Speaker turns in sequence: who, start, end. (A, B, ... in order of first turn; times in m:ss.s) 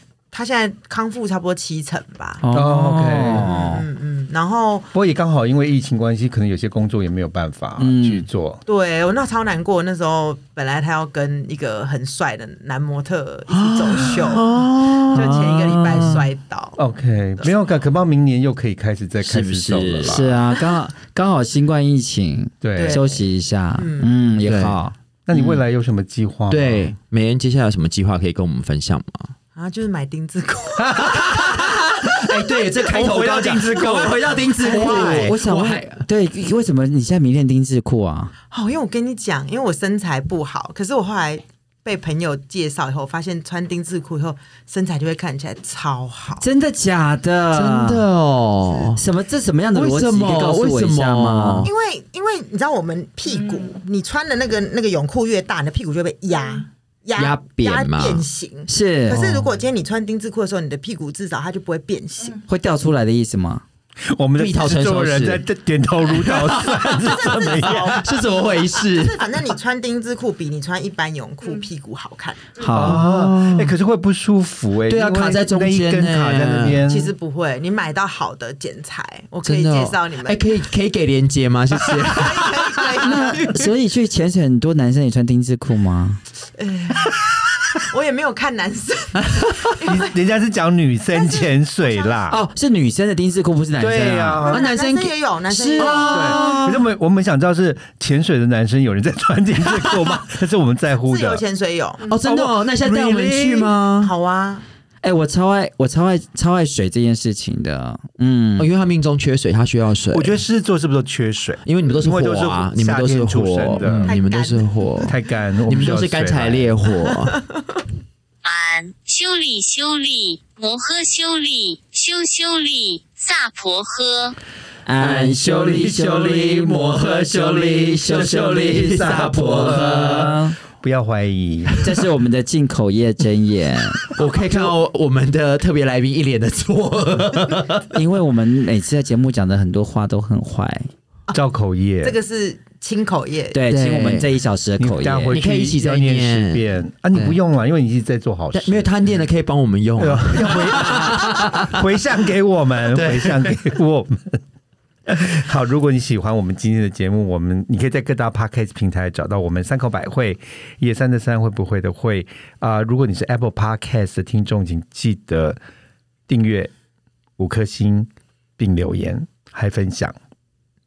0:00.3-0:02.4 A
0:02.4-0:03.9 B
0:02.5-0:03.5 C
0:03.4-0:04.9 A
0:04.9-0:08.6 C
0:07.8-0:08.3 B
0:08.7-0:14.4 A
0:13.5-0:16.2 D
0:15.1-0:16.8 A
0:16.8-0:20.4 C
0:19.2-0:20.3 D
0:20.0-0:25.0 B
0:22.6-0:23.0 C
0:22.8-0:23.3 A
0:23.8-0:24.1 A
0:24.4-0:24.8 D
0:25.3-0:27.0 C
0:25.3-0:25.6 D
0:26.5-0:29.4 D
0:29.6-0:31.6 A
0:31.0-0:31.3 C
0:31.0-0:36.1 D
0:32.8-0:35.4 C
0:34.6-0:38.3 B
0:38.5-0:46.4 A
0:46.4-0:48.1 B
0:47.5-0:49.0 D
0:49.0-0:51.7 B
0:49.8-0:51.7 D
0:51.6-1:02.4 A
0:57.2-0:58.3 D
0:58.7-0:59.3 B
1:02.4-1:03.6 B
1:04.0-1:08.0 C
1:04.4-1:05.4 D
1:06.1-1:09.2 D
1:07.0-1:12.6 A
1:12.6-1:13.1 B
1:12.7-1:13.7 D
1:12.8-1:17.1 C
1:14.9-1:16.8 D
1:16.9-1:20.5 A
1:19.4-1:23.3 D
1:22.1-1:23.7 A
1:23.0-1:26.2 B
1:26.6-1:27.2 A
1:27.8-1:30.1 A
1:29.8-1:32.4 C
1:31.2-1:31.5 A
1:32.3-1:34.5 B
1:33.8-1:34.7 C
1:34.5-1:36.6 A
1:34.5-1:36.9 D
1:36.1-1:41.4 C
1:41.1-1:42.1 A
1:42.0-1:44.1 D
1:42.2-1:43.8 C
1:44.0-1:44.6 A
1:45.0-1:48.7 B
1:48.6-1:50.4 D
1:50.1-1:54.1 C
1:51.6-1:57.4 D
1:54.1-1:55.1 A
1:55.0-1:56.7 C
1:58.4-2:04.4 E
2:04.9-2:10.6 B
2:05.0-2:10.4 D
2:05.5-2:07.0 C
2:08.6-2:11.8 C
2:11.8-2:14.1 B
2:14.1-2:17.9 D
2:17.9-2:20.9 B
2:21.3-2:22.2 C
2:22.0-2:23.6 A
2:23.5-2:25.4 B
2:23.7-2:24.3 D
2:24.8-2:28.9 C
2:25.3-2:27.4 D
2:28.5-2:31.8 D
2:30.0-2:34.4 C
2:32.9-2:33.6 D
2:35.1-2:45.6 C
2:46.3-2:46.7 C
2:47.4-2:50.2 C